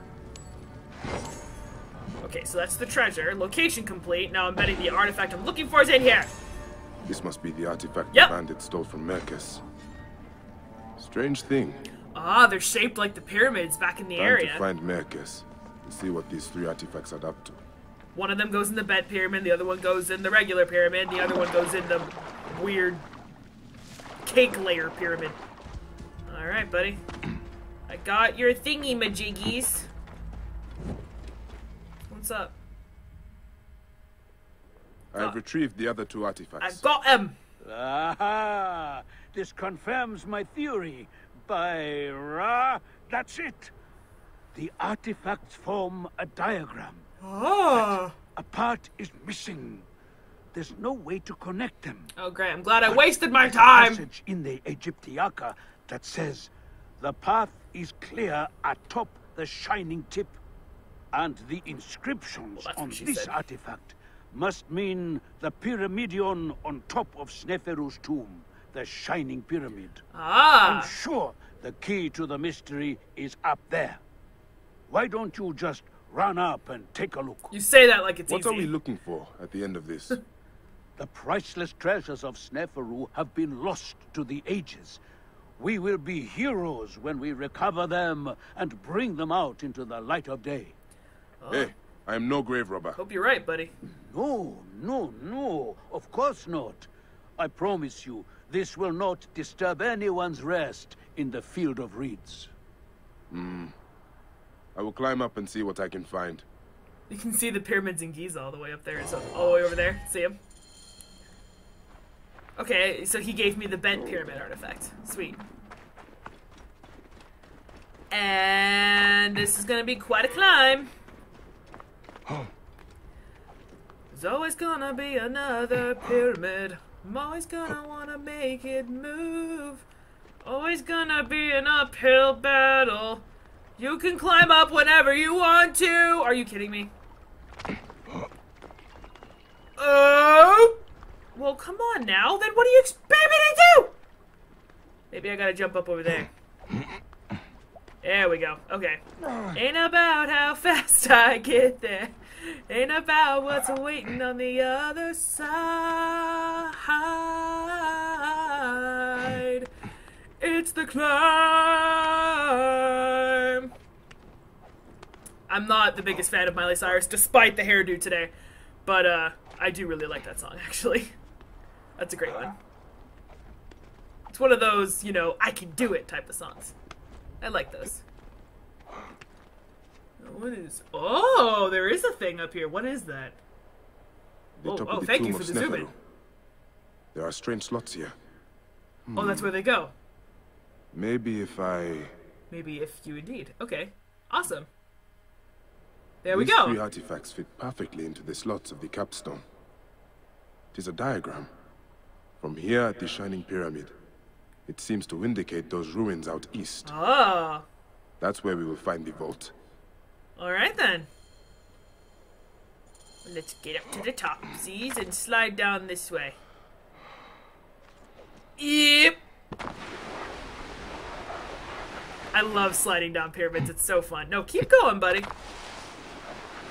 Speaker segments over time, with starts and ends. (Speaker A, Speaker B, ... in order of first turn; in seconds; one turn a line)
Speaker A: 2.2-6.3
Speaker B: 7.0-9.6
Speaker B: 11.0-11.8
Speaker A: 12.1-14.6
Speaker B: 14.2-17.6
Speaker A: 18.1-23.0
Speaker A: 24.2-25.4
Speaker A: 26.3-27.0
Speaker A: 27.9-29.9
Speaker A: 32.1-32.5
Speaker B: 35.1-36.8
Speaker A: 35.1-35.4
Speaker A: 36.6-37.4
Speaker C: 37.6-43.7
Speaker C: 44.5-47.0
Speaker A: 47.2-48.1
Speaker C: 47.8-49.9
Speaker C: 50.5-52.1
Speaker A: 52.1-54.0
Speaker C: 52.8-60.4
Speaker C: 61.1-70.0
Speaker A: 62.6-63.4
Speaker A: 70.1-70.9
Speaker C: 70.6-74.0
Speaker C: 74.9-77.5
Speaker A: 77.5-78.7
Speaker B: 78.3-80.2
Speaker C: 81.0-85.0
Speaker C: 85.6-90.7
Speaker A: 91.4-91.7
Speaker B: 91.5-93.0
Speaker A: 93.0-93.7
Speaker C: 93.8-102.5
Speaker B: 103.3-103.8
Speaker B: 104.7-106.5
Speaker A: 107.1-110.4
Speaker A: 112.6-115.4
Speaker A: 118.1-120.9
Speaker B: 122.2-122.5
Speaker A: 124.1-129.8
Speaker A: 130.4-133.2
Speaker A: 133.8-136.9
Speaker A: 139.8-140.8
Speaker A: 141.3-143.9
Speaker A: 145.1-146.3
Speaker A: 148.0-159.7
Speaker A: 160.4-163.7
Speaker A: 165.5-168.3
Speaker A: 168.8-171.1
Speaker A: 172.0-172.6
Speaker A: 174.3-176.7
Speaker A: 177.4-178.0
Speaker A: 180.2-183.4
Speaker B: 184.6-185.9
Speaker A: 184.7-185.9
Speaker B: 187.1-188.1
Speaker B: 189.1-189.5
Speaker A: 189.1-189.9
Speaker B: 190.9-192.1
Speaker A: 192.5-194.7
Speaker A: 196.2-196.8
Speaker B: 196.3-199.4
Speaker B: 200.7-201.5
Speaker B: 202.4-203.9
Speaker B: 204.7-206.9
Speaker A: 206.8-207.7
Speaker B: 208.2-209.5
Speaker A: 210.4-211.1
Speaker A: 213.2-216.4
Speaker A: 218.6-219.2
Speaker A: 222.3-225.3